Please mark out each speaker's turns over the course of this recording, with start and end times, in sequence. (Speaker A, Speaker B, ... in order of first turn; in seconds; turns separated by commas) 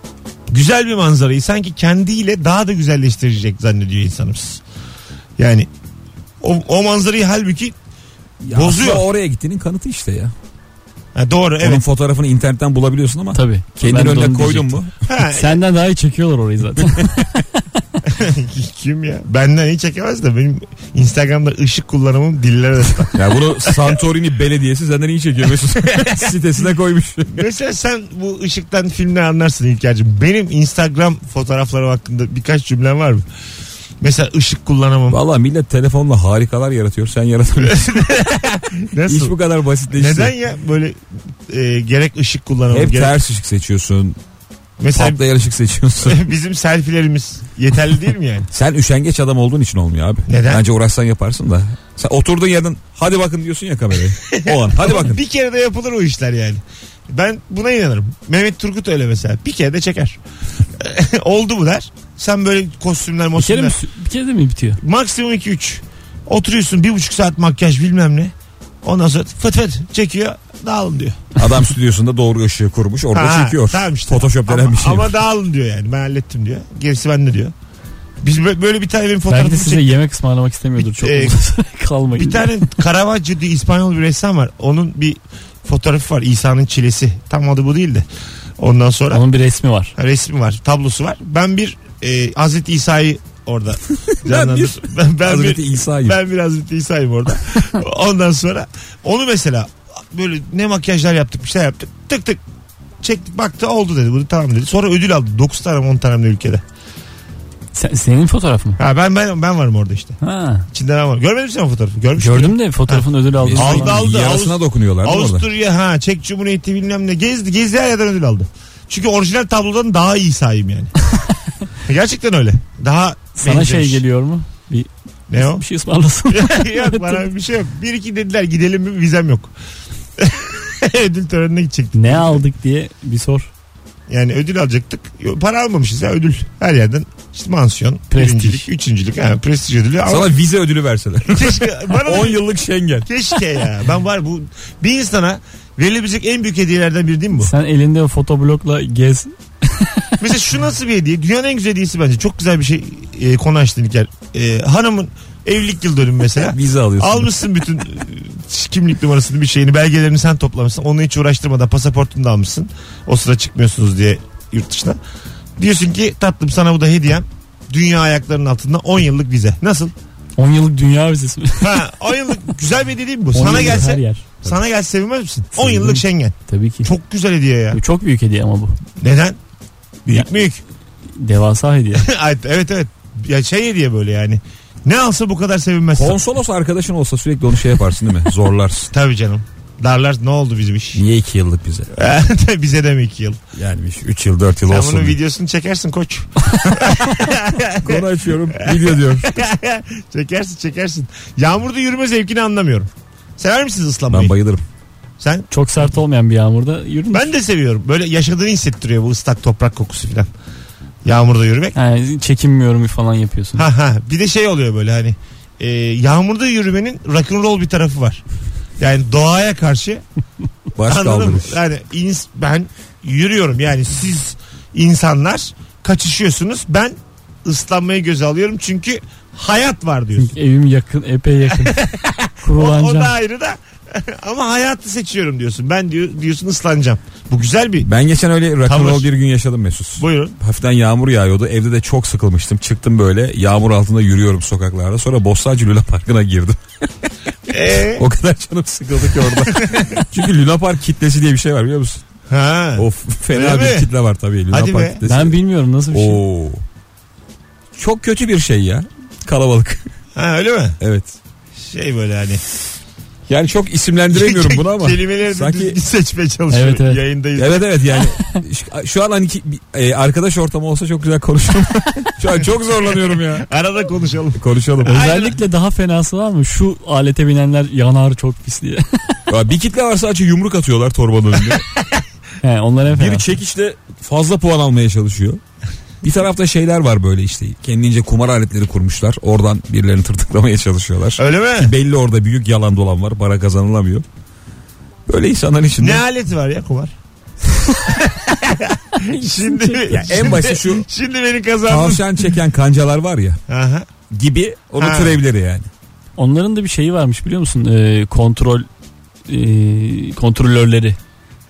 Speaker A: 0.5-4.6, Speaker A: 5.4-5.7, Speaker A: 6.4-7.7, Speaker B: 8.4-10.3, Speaker A: 8.5-9.0, Speaker A: 11.1-11.8, Speaker B: 11.6-14.9, Speaker C: 13.3-14.8, Speaker A: 15.1-15.6, Speaker C: 15.3-17.3, Speaker B: 16.8-17.1, Speaker A: 18.1-24.0, Speaker B: 23.1-27.5, Speaker A: 25.7-26.3, Speaker A: 27.3-33.2, Speaker A: 34.0-35.2, Speaker B: 35.1-38.0, Speaker A: 37.6-39.3, Speaker B: 39.0-40.3, Speaker A: 39.9-43.1, Speaker B: 42.7-44.2, Speaker A: 44.8-45.2, Speaker B: 44.9-46.2, Speaker A: 46.0-48.5, Speaker B: 48.5-55.2, Speaker A: 50.3-50.6, Speaker A: 54.3-60.2, Speaker A: 60.8-63.8, Speaker C: 63.4-64.8, Speaker A: 64.8-71.3, Speaker B: 71.3-75.1, Speaker A: 73.1-77.5, Speaker A: 78.2-80.0, Speaker C: 79.3-82.5, Speaker A: 80.8-81.3, Speaker A: 82.1-88.0, Speaker A: 88.6-89.2, Speaker C: 89.1-89.9, Speaker A: 90.0-102.4, Speaker B: 94.2-96.2, Speaker A: 103.0-106.6, Speaker C: 107.7-108.8, Speaker A: 108.8-110.2, Speaker C: 110.2-110.7, Speaker A: 110.7-120.9, Speaker C: 112.2-114.0, Speaker B: 113.4-115.5, Speaker A: 121.8-124.0, Speaker C: 123.4-127.2, Speaker A: 125.3-125.6, Speaker A: 126.3-129.5, Speaker A: 130.2-132.4, Speaker C: 131.9-133.5, Speaker A: 134.1-140.3, Speaker C: 138.1-138.7, Speaker B: 140.0-143.1, Speaker A: 141.3-142.4, Speaker A: 143.1-147.5, Speaker C: 147.4-150.1, Speaker A: 150.2-165.0, Speaker B: 156.4-157.3, Speaker A: 165.6-169.9, Speaker C: 170.4-171.8, Speaker A: 171.6-177.8, Speaker C: 173.3-174.2, Speaker B: 173.4-173.8, Speaker C: 175.5-176.9, Speaker C: 177.7-178.8, Speaker A: 179.0-179.4, Speaker A: 180.1-180.6, Speaker C: 181.2-182.1, Speaker A: 182.0-186.2, Speaker B: 185.9-188.9, Speaker A: 188.9-191.0, Speaker B: 190.9-191.9, Speaker A: 191.9-193.4, Speaker B: 193.6-195.2, Speaker A: 194.7-204.3, Speaker B: 197.8-199.4, Speaker B: 204.1-204.6, Speaker A: 205.2-205.5, Speaker C: 205.5-207.3, Speaker A: 207.1-210.3, Speaker A: 211.0-211.8, Speaker C: 211.7-213.6, Speaker A: 213.6-218.2, Speaker A: 218.8-220.0, Speaker B: 220.7-221.6, Speaker A: 220.9-230.3, Speaker C: 230.2-231.8, Speaker A: 231.5-237.9, Speaker C: 232.4-233.1, Speaker B: 237.8-246.9, Speaker A: 238.6-239.1, Speaker A: 240.0-240.3, Speaker A: 247.5-248.0, Speaker B: 247.8-252.0, Speaker A: 249.4-250.0, Speaker A: 252.3-253.9, Speaker B: 252.8-255.4, Speaker A: 254.5-255.0, Speaker C: 255.1-256.2, Speaker B: 255.9-256.6, Speaker B: 257.7-259.9, Speaker A: 260.1-260.8, Speaker B: 260.8-261.1, Speaker A: 261.6-262.4, Speaker B: 263.3-265.8, Speaker A: 264.1-267.8, Speaker C: 266.5-267.0, Speaker B: 267.4-273.5, Speaker C: 268.1-268.4, Speaker A: 273.1-275.4, Speaker B: 274.4-275.0, Speaker C: 274.8-279.1, Speaker B: 279.3-281.6, Speaker C: 282.4-283.3, Speaker B: 282.9-285.4, Speaker B: 286.0-294.0, Speaker A: 291.2-291.7, Speaker B: 295.1-296.0, Speaker A: 295.8-296.9, Speaker A: 297.9-302.3, Speaker C: 299.0-300.3, Speaker B: 299.9-300.9, Speaker B: 301.7-303.4, Speaker A: 303.5-303.9, Speaker B: 304.1-305.7, Speaker A: 304.8-305.2, Speaker C: 306.2-308.7, Speaker C: 309.3-311.0